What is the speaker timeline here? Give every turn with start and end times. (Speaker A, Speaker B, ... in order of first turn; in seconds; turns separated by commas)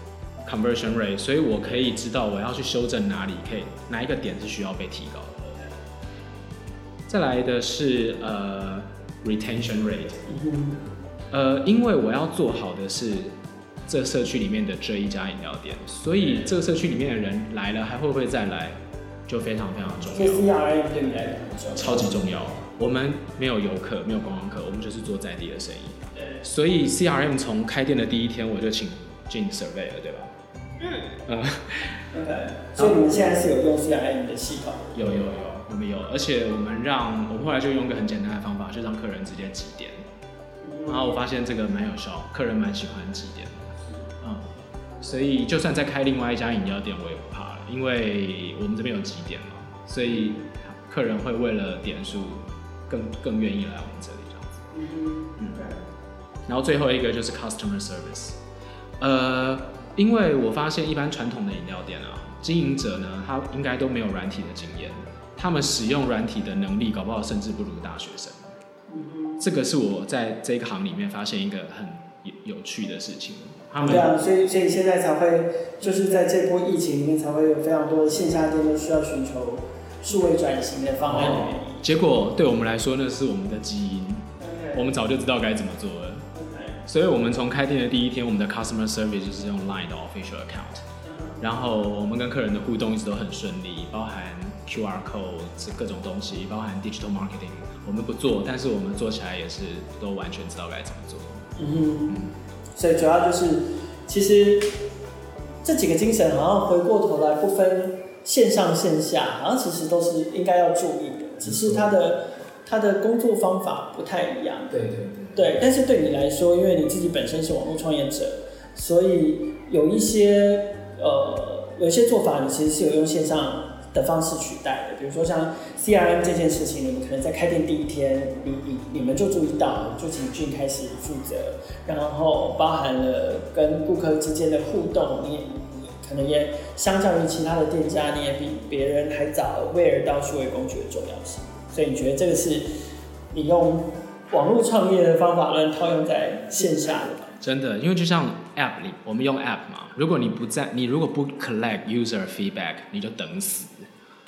Speaker A: 0.4-5.5, Speaker A: 7.1-10.2, Speaker B: 10.3-10.8, Speaker A: 11.3-13.3, Speaker A: 13.9-20.5, Speaker B: 20.1-22.1, Speaker A: 21.7-30.3, Speaker A: 30.9-32.0, Speaker B: 32.1-35.0, Speaker A: 34.9-40.0, Speaker B: 40.6-41.1, Speaker A: 40.9-43.7, Speaker A: 44.2-44.5, Speaker A: 45.0-54.6, Speaker B: 50.1-50.4, Speaker B: 54.7-55.8, Speaker A: 56.5-58.4, Speaker A: 59.0-68.5, Speaker B: 68.9-69.4, Speaker A: 69.4-74.1, Speaker B: 73.8-81.8, Speaker A: 81.0-86.3, Speaker B: 84.4-84.8, Speaker B: 86.3-86.8, Speaker A: 86.8-90.8, Speaker B: 91.0-91.4, Speaker A: 91.4-101.5, Speaker B: 101.5-102.2, Speaker B: 102.7-104.8, Speaker B: 105.6-114.8, Speaker A: 111.4-111.8, Speaker A: 114.7-115.5, Speaker B: 115.3-142.7, Speaker B: 143.3-147.4, Speaker A: 147.4-153.9